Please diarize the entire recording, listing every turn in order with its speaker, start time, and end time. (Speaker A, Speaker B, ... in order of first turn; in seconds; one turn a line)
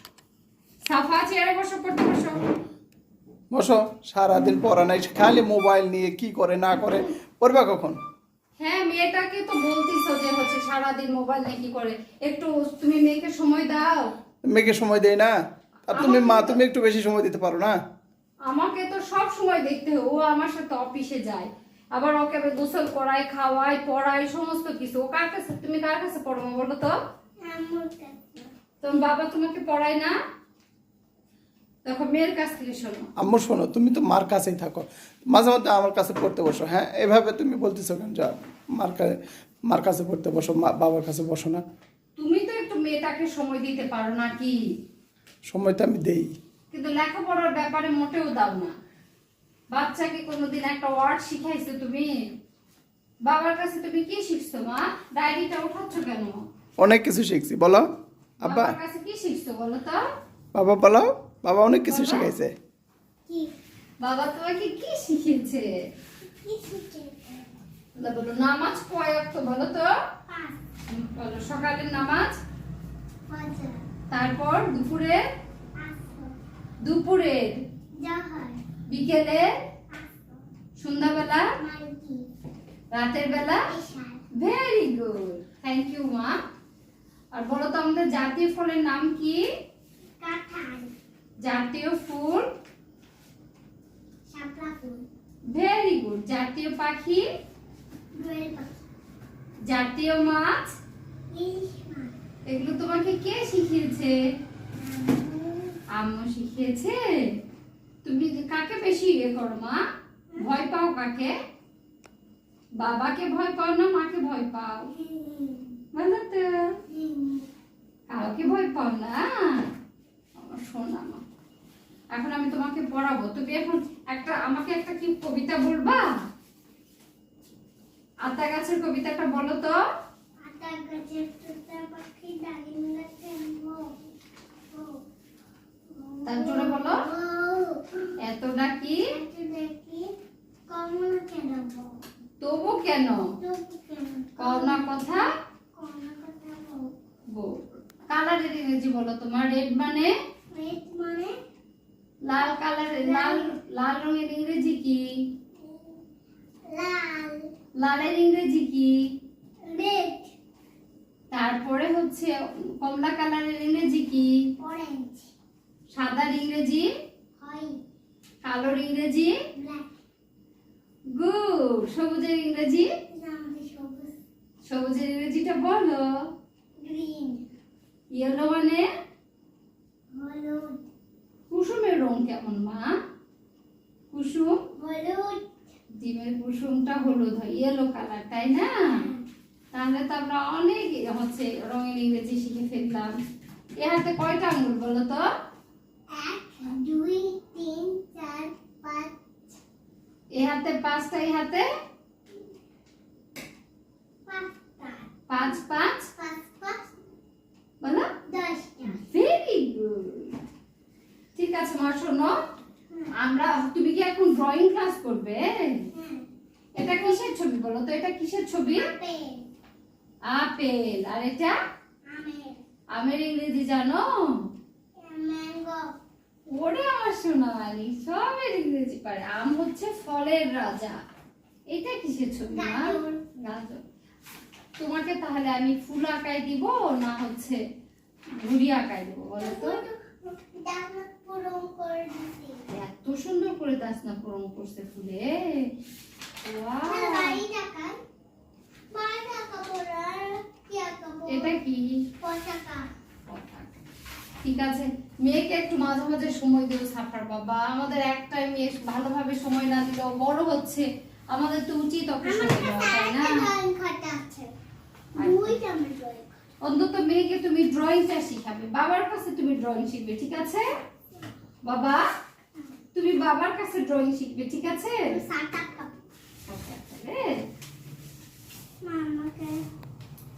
Speaker A: 0.8-2.5
Speaker B: 3.5-8.0
Speaker A: 8.6-14.1
Speaker B: 14.4-15.3
Speaker B: 15.9-17.8
Speaker A: 15.9-16.6
Speaker A: 18.4-26.9
Speaker C: 27.4-28.5
Speaker A: 28.8-30.1
Speaker A: 31.8-33.1
Speaker B: 33.2-39.1
Speaker B: 39.7-41.6
Speaker A: 42.2-44.6
Speaker B: 45.5-46.3
Speaker A: 46.7-48.7
Speaker A: 49.7-52.1
Speaker A: 53.2-56.4
Speaker B: 56.8-57.9
Speaker B: 58.4-58.7
Speaker A: 58.4-60.0
Speaker B: 60.5-62.5
Speaker A: 61.9-62.3
Speaker A: 64.0-65.7
Speaker C: 66.4-67.5
Speaker A: 68.0-69.9
Speaker C: 70.3-70.6
Speaker A: 70.9-72.3
Speaker C: 73.3-73.8
Speaker A: 74.1-75.2
Speaker C: 75.8-76.3
Speaker A: 76.8-77.5
Speaker C: 78.0-78.6
Speaker A: 78.9-79.5
Speaker C: 79.9-80.4
Speaker A: 80.8-81.4
Speaker C: 81.6-82.3
Speaker A: 82.9-83.6
Speaker C: 83.7-84.2
Speaker A: 84.4-86.3
Speaker A: 87.3-89.4
Speaker C: 90.2-90.9
Speaker A: 91.4-92.5
Speaker C: 94.3-95.0
Speaker A: 95.5-97.2
Speaker C: 98.1-98.8
Speaker A: 99.7-100.7
Speaker C: 101.3-102.1
Speaker A: 102.5-104.1
Speaker C: 104.7-105.8
Speaker A: 105.9-107.0
Speaker A: 108.0-109.8
Speaker A: 110.4-111.3
Speaker A: 112.8-114.9
Speaker C: 114.9-115.7
Speaker A: 115.9-116.4
Speaker C: 116.9-117.4
Speaker A: 118.1-119.6
Speaker A: 120.4-121.2
Speaker A: 122.1-126.0
Speaker A: 128.2-129.7
Speaker C: 130.4-133.9
Speaker C: 134.7-135.0
Speaker C: 135.9-138.1
Speaker A: 136.2-137.0
Speaker A: 138.2-139.0
Speaker C: 139.1-140.1
Speaker C: 140.7-141.9
Speaker A: 142.4-143.2
Speaker C: 143.4-145.2
Speaker A: 144.4-145.2
Speaker C: 145.7-146.9
Speaker A: 148.1-150.1
Speaker C: 150.5-151.3
Speaker A: 152.3-155.0
Speaker C: 152.4-153.6
Speaker C: 155.6-156.0
Speaker C: 156.7-157.5
Speaker A: 157.8-158.9
Speaker C: 159.7-160.3
Speaker A: 161.3-164.3
Speaker C: 164.6-165.3
Speaker A: 165.9-166.8
Speaker C: 167.4-167.7
Speaker A: 168.4-169.3
Speaker C: 169.6-169.9
Speaker A: 171.1-172.8
Speaker C: 173.1-174.2
Speaker A: 174.7-176.0
Speaker C: 176.8-177.4
Speaker A: 178.2-178.8
Speaker C: 180.1-180.8
Speaker A: 181.5-182.9
Speaker A: 184.1-184.5
Speaker C: 184.8-185.4
Speaker A: 186.0-188.8
Speaker C: 188.8-189.2
Speaker A: 189.7-193.1
Speaker A: 193.8-195.2
Speaker C: 196.1-199.5
Speaker A: 200.3-201.6
Speaker C: 204.2-205.4
Speaker A: 205.3-206.1
Speaker C: 206.2-206.9
Speaker A: 207.8-208.1
Speaker C: 208.3-209.0
Speaker A: 209.0-210.3
Speaker A: 211.3-212.3
Speaker A: 213.2-215.4
Speaker C: 215.9-216.2
Speaker C: 216.8-217.3
Speaker A: 216.8-218.8
Speaker C: 218.8-219.4
Speaker A: 220.3-221.5
Speaker C: 222.1-222.6
Speaker A: 222.9-224.1
Speaker C: 225.0-225.8
Speaker A: 226.6-230.9
Speaker A: 231.7-233.8
Speaker C: 232.5-233.2
Speaker A: 234.8-237.6
Speaker A: 238.4-239.8
Speaker C: 239.4-242.6
Speaker A: 242.7-245.7
Speaker A: 246.4-247.4
Speaker C: 246.9-247.9
Speaker C: 248.9-251.5
Speaker A: 251.3-251.8
Speaker C: 252.2-252.8
Speaker A: 253.3-253.7
Speaker A: 254.4-263.5
Speaker C: 262.2-264.5
Speaker C: 265.1-266.3
Speaker A: 265.2-265.6
Speaker A: 266.6-270.6
Speaker A: 271.6-272.0
Speaker A: 272.9-275.1
Speaker C: 275.1-275.9
Speaker A: 276.5-277.4
Speaker C: 278.8-279.6